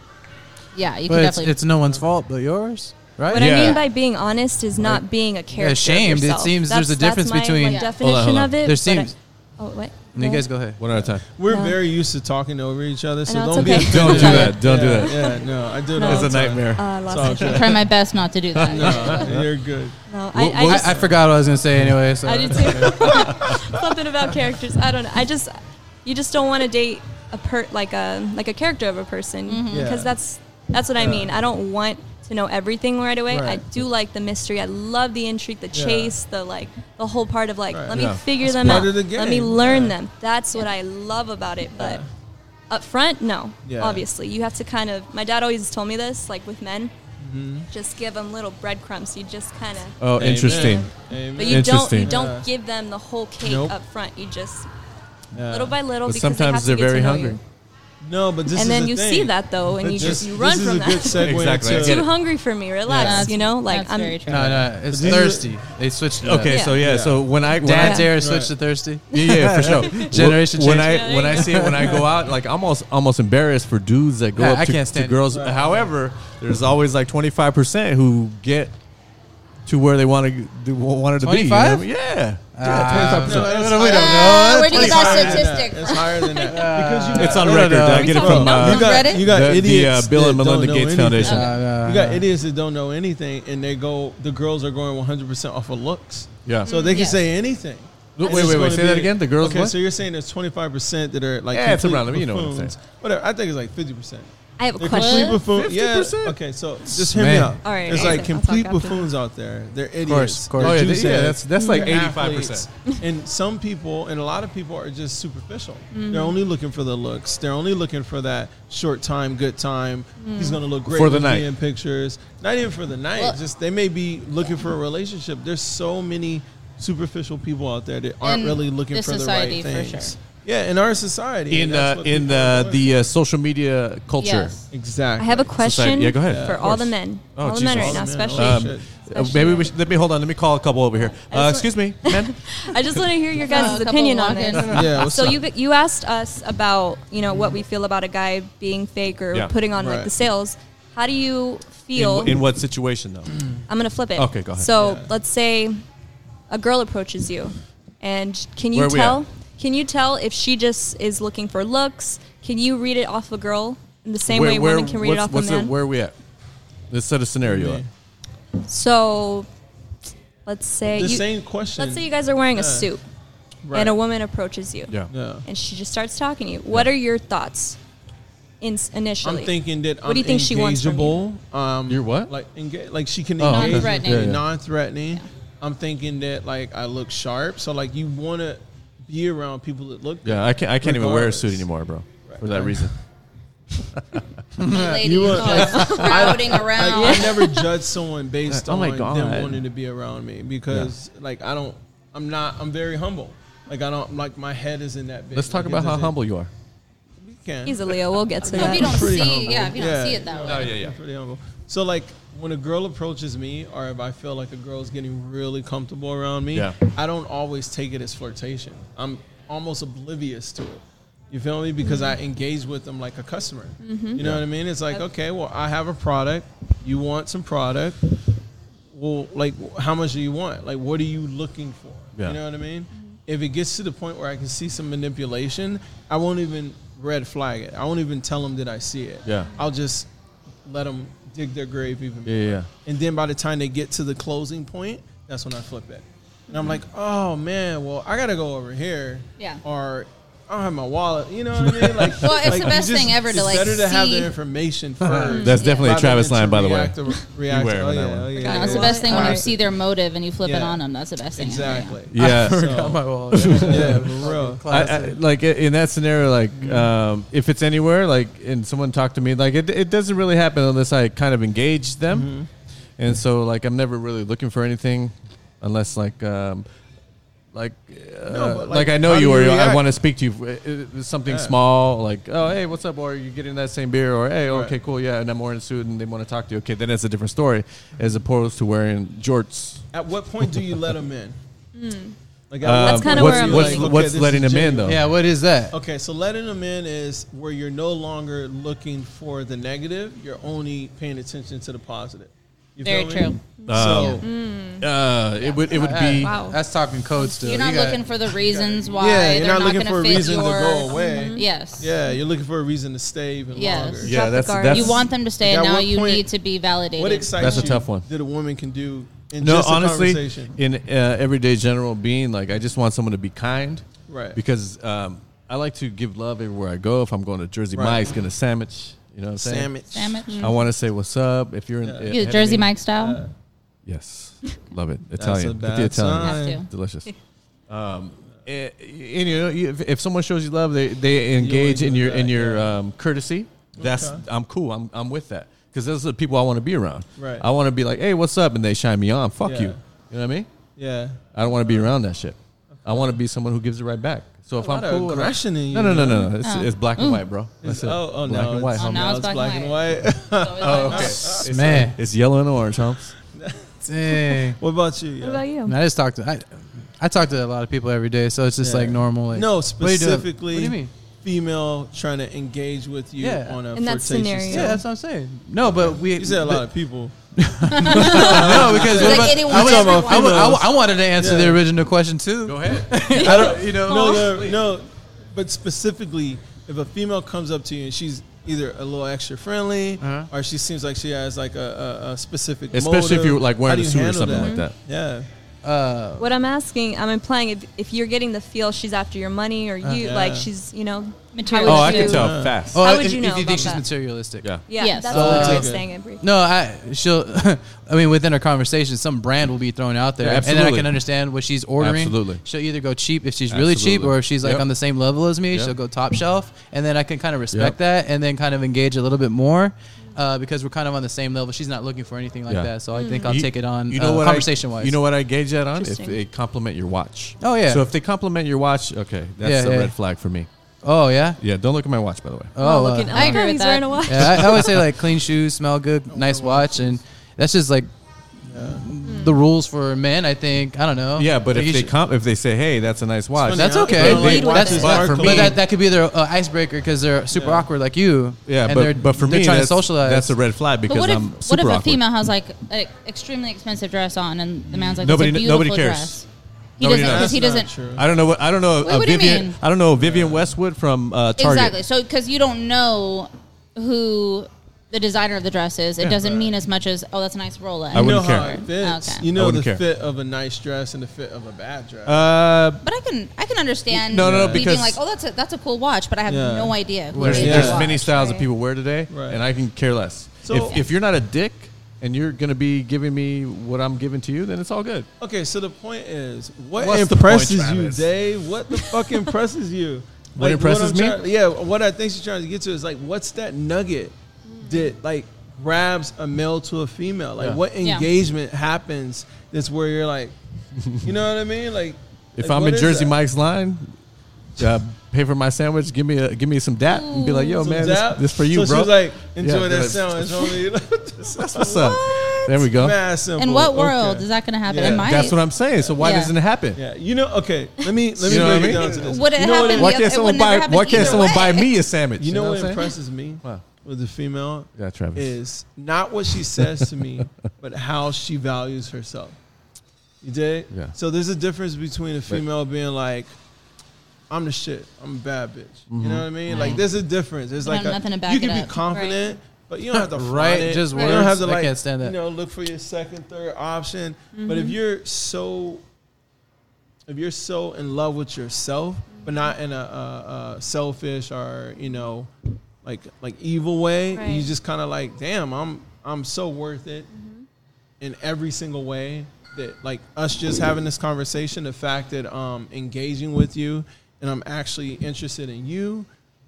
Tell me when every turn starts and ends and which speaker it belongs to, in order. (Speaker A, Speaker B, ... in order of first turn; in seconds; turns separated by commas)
Speaker A: 0.7-1.6, Speaker B: 1.1-3.8, Speaker C: 3.3-10.5, Speaker D: 3.3-3.8, Speaker B: 5.5-7.9, Speaker A: 7.6-8.0, Speaker D: 8.0-8.6, Speaker B: 8.6-9.2, Speaker B: 10.2-10.8, Speaker D: 10.8-11.3, Speaker E: 11.0-17.8, Speaker C: 11.5-11.8, Speaker C: 13.3-15.4, Speaker D: 13.6-15.4, Speaker C: 16.0-17.8, Speaker D: 16.0-17.7, Speaker A: 17.4-19.3, Speaker D: 18.6-19.4, Speaker E: 18.7-20.0, Speaker C: 18.9-19.3, Speaker C: 20.1-21.1, Speaker B: 20.4-23.3, Speaker E: 20.8-21.1, Speaker C: 22.2-42.0, Speaker E: 22.7-23.3, Speaker A: 29.5-29.9, Speaker E: 29.7-30.1, Speaker E: 31.0-31.3, Speaker E: 33.3-33.6, Speaker E: 35.7-36.1, Speaker E: 37.7-40.0, Speaker D: 37.9-38.9, Speaker E: 41.8-42.0, Speaker C: 42.7-46.9, Speaker E: 43.6-44.0, Speaker E: 47.2-47.7, Speaker C: 47.7-54.7, Speaker D: 50.0-51.0, Speaker E: 50.2-52.5, Speaker D: 51.5-52.1, Speaker E: 53.4-53.8, Speaker E: 55.3-55.8, Speaker C: 55.5-57.4, Speaker D: 56.0-57.4, Speaker E: 58.0-62.0, Speaker C: 58.5-64.2, Speaker D: 61.2-62.1, Speaker E: 62.9-63.3, Speaker A: 63.0-64.7, Speaker B: 64.3-66.7, Speaker E: 64.3-65.6, Speaker D: 66.2-68.2, Speaker C: 66.5-66.8, Speaker E: 66.8-67.3, Speaker B: 67.6-72.0, Speaker C: 67.8-68.1, Speaker E: 68.1-68.5, Speaker D: 69.1-78.7, Speaker C: 69.1-70.1, Speaker C: 70.7-71.8, Speaker E: 71.8-72.1, Speaker B: 74.3-75.2, Speaker E: 75.3-75.9, Speaker D: 79.7-83.5, Speaker B: 81.2-81.9, Speaker B: 82.5-85.5, Speaker E: 82.8-133.0, Speaker A: 83.6-86.4, Speaker C: 85.9-87.3, Speaker B: 86.5-88.4, Speaker D: 87.2-91.6, Speaker C: 87.9-89.2, Speaker A: 88.3-89.2, Speaker A: 91.2-91.5, Speaker B: 91.2-92.2, Speaker D: 96.5-96.7, Speaker C: 96.7-97.0, Speaker A: 96.7-97.2, Speaker D: 98.2-99.8, Speaker D: 101.5-102.8, Speaker C: 104.6-105.5, Speaker A: 104.9-105.4, Speaker D: 105.5-106.4, Speaker B: 106.9-107.7, Speaker C: 107.6-109.1, Speaker B: 110.0-111.2, Speaker D: 110.6-112.7, Speaker C: 111.5-112.0, Speaker C: 115.9-116.4, Speaker C: 120.2-120.6, Speaker D: 120.9-121.5, Speaker A: 128.2-130.2, Speaker D: 131.5-134.7, Speaker A: 134.2-134.6, Speaker E: 134.7-135.6, Speaker C: 135.2-139.7, Speaker D: 135.6-143.0, Speaker E: 136.2-136.8, Speaker E: 137.7-138.9, Speaker C: 141.2-152.4, Speaker A: 143.4-144.9, Speaker D: 144.5-145.1, Speaker E: 144.7-145.4, Speaker E: 149.7-150.1, Speaker D: 151.9-153.4, Speaker C: 153.7-155.8, Speaker D: 154.2-154.7, Speaker E: 154.8-155.1, Speaker C: 156.5-165.7, Speaker D: 158.7-159.2, Speaker D: 164.3-166.2, Speaker D: 166.9-167.8, Speaker E: 167.4-167.9, Speaker C: 168.7-169.5, Speaker C: 170.5-173.0, Speaker E: 170.9-172.9, Speaker E: 173.6-174.0, Speaker C: 173.7-177.8, Speaker E: 175.1-175.4, Speaker C: 178.6-181.2, Speaker E: 179.2-191.7, Speaker D: 181.9-182.3, Speaker D: 183.4-184.4, Speaker A: 183.5-184.4, Speaker D: 190.2-192.9, Speaker E: 192.2-192.9, Speaker B: 194.6-195.0, Speaker A: 194.6-197.6, Speaker E: 194.8-206.2, Speaker C: 195.3-197.7, Speaker D: 198.5-199.6, Speaker D: 205.3-206.5, Speaker E: 207.2-228.0, Speaker C: 207.7-209.3, Speaker A: 208.4-210.7, Speaker D: 210.4-211.0, Speaker C: 221.8-222.2, Speaker C: 223.8-224.2, Speaker D: 224.2-224.4, Speaker E: 228.9-240.1, Speaker D: 239.2-239.5, Speaker E: 240.7-259.6, Speaker D: 242.3-242.7, Speaker C: 246.5-246.8, Speaker A: 249.4-249.6, Speaker D: 251.7-252.7, Speaker A: 252.2-254.3, Speaker C: 255.3-255.6, Speaker D: 255.3-258.4, Speaker A: 255.5-255.9, Speaker C: 258.4-259.5, Speaker A: 258.4-261.9, Speaker E: 260.4-260.8, Speaker E: 261.4-264.7, Speaker D: 262.1-264.1, Speaker B: 262.2-265.2, Speaker D: 264.7-272.3, Speaker E: 272.1-272.5, Speaker D: 273.0-276.7, Speaker D: 277.5-289.8, Speaker E: 278.3-279.9, Speaker E: 281.3-281.6, Speaker E: 284.5-284.8, Speaker E: 289.9-291.4, Speaker C: 291.8-292.2, Speaker E: 292.5-295.0, Speaker D: 292.6-295.0, Speaker C: 292.7-293.9, Speaker B: 294.8-295.8, Speaker E: 295.7-304.2, Speaker A: 302.8-303.4, Speaker C: 303.6-304.9, Speaker D: 303.7-304.2, Speaker D: 304.8-306.4, Speaker A: 305.4-305.8, Speaker B: 305.7-308.0, Speaker C: 306.0-306.6, Speaker A: 307.4-311.9, Speaker E: 308.4-314.2, Speaker C: 310.9-311.4, Speaker A: 313.5-317.8, Speaker C: 314.1-315.1, Speaker D: 314.1-315.1, Speaker E: 315.4-316.3, Speaker E: 317.0-320.5, Speaker D: 317.4-318.1, Speaker D: 319.4-329.7, Speaker E: 324.1-324.4, Speaker E: 327.8-328.1, Speaker E: 329.4-330.3, Speaker A: 329.9-330.4, Speaker C: 330.3-330.6, Speaker D: 330.4-332.7, Speaker E: 331.8-333.3, Speaker A: 332.1-333.2, Speaker D: 333.9-337.1, Speaker E: 335.2-336.6, Speaker A: 336.2-336.7, Speaker D: 337.7-350.5, Speaker E: 341.4-342.7, Speaker E: 343.8-344.2, Speaker E: 347.2-347.5, Speaker E: 349.4-349.8, Speaker E: 350.8-351.9, Speaker D: 351.3-359.2, Speaker E: 354.6-356.3, Speaker A: 356.4-357.2, Speaker E: 357.6-361.8, Speaker A: 358.8-361.4, Speaker D: 360.6-363.1, Speaker B: 361.4-362.0, Speaker E: 363.3-365.4, Speaker B: 363.9-364.6, Speaker C: 365.2-365.8, Speaker B: 365.6-370.9, Speaker E: 368.6-374.8, Speaker B: 373.2-373.6, Speaker C: 373.7-374.8, Speaker B: 374.5-376.7, Speaker E: 375.9-377.1, Speaker B: 377.4-384.2, Speaker A: 377.7-380.6, Speaker E: 377.8-381.6, Speaker D: 382.5-384.7, Speaker E: 383.2-395.3, Speaker B: 390.0-390.3, Speaker D: 392.7-394.8, Speaker C: 394.3-394.6, Speaker B: 395.6-396.3, Speaker C: 396.2-403.8, Speaker B: 399.8-400.1, Speaker E: 400.0-400.5, Speaker A: 401.3-402.3, Speaker D: 401.6-402.9, Speaker E: 401.9-402.6, Speaker B: 402.7-404.5, Speaker C: 404.7-406.2, Speaker A: 404.8-405.3, Speaker E: 405.1-405.9, Speaker B: 405.1-425.0, Speaker D: 410.2-410.9, Speaker D: 411.8-412.4, Speaker D: 413.5-414.6, Speaker D: 422.5-422.7, Speaker C: 422.9-423.4, Speaker D: 423.2-430.5, Speaker C: 425.8-426.2, Speaker B: 427.4-427.9, Speaker B: 429.4-429.9, Speaker B: 430.8-431.4, Speaker D: 431.4-432.5, Speaker B: 432.6-433.5, Speaker C: 432.6-434.8, Speaker A: 433.1-434.1, Speaker B: 434.1-437.9, Speaker D: 434.1-434.8, Speaker E: 436.1-437.0, Speaker E: 438.5-438.9, Speaker B: 438.5-441.9, Speaker C: 439.0-439.4, Speaker D: 441.2-445.6, Speaker E: 443.4-445.6, Speaker B: 443.5-450.4, Speaker C: 444.2-444.8, Speaker E: 447.3-447.7, Speaker D: 448.5-452.0, Speaker A: 450.9-456.2, Speaker E: 454.7-455.0, Speaker D: 455.0-456.2, Speaker D: 456.8-461.8, Speaker A: 456.8-457.7, Speaker E: 456.9-458.1, Speaker A: 458.8-459.6, Speaker E: 460.0-460.5, Speaker A: 461.4-469.3, Speaker E: 466.0-466.5, Speaker D: 467.9-468.6, Speaker E: 467.9-472.3, Speaker D: 469.3-469.8, Speaker D: 472.1-472.8, Speaker A: 472.8-478.4, Speaker D: 473.9-475.0, Speaker E: 474.1-474.7, Speaker E: 476.3-477.9, Speaker B: 477.1-477.7, Speaker D: 477.2-485.1, Speaker C: 477.9-478.4, Speaker E: 479.1-479.4, Speaker E: 480.4-480.8, Speaker A: 480.6-480.9, Speaker E: 485.2-500.4, Speaker D: 486.8-488.1, Speaker D: 490.4-491.2, Speaker C: 494.5-494.9, Speaker A: 497.8-498.1, Speaker D: 500.8-501.1, Speaker E: 501.0-503.2, Speaker D: 502.4-504.0, Speaker D: 504.6-510.6, Speaker A: 506.8-507.7, Speaker E: 507.6-515.3, Speaker D: 511.2-513.0, Speaker A: 513.4-515.4, Speaker D: 514.8-516.8, Speaker A: 516.0-516.3, Speaker E: 516.8-520.0, Speaker D: 518.2-523.7, Speaker A: 518.3-521.7, Speaker E: 521.0-521.2, Speaker E: 522.2-529.4, Speaker D: 524.8-525.4, Speaker E: 530.2-533.3, Speaker D: 530.7-531.0, Speaker E: 534.3-545.8, Speaker D: 535.9-536.8, Speaker A: 537.6-538.8, Speaker C: 538.9-539.2, Speaker B: 539.9-542.2, Speaker C: 540.9-541.2, Speaker C: 544.3-544.8, Speaker E: 547.1-552.3, Speaker C: 549.2-549.5, Speaker E: 552.8-557.1, Speaker C: 554.1-554.5, Speaker C: 557.1-557.4, Speaker E: 558.0-566.1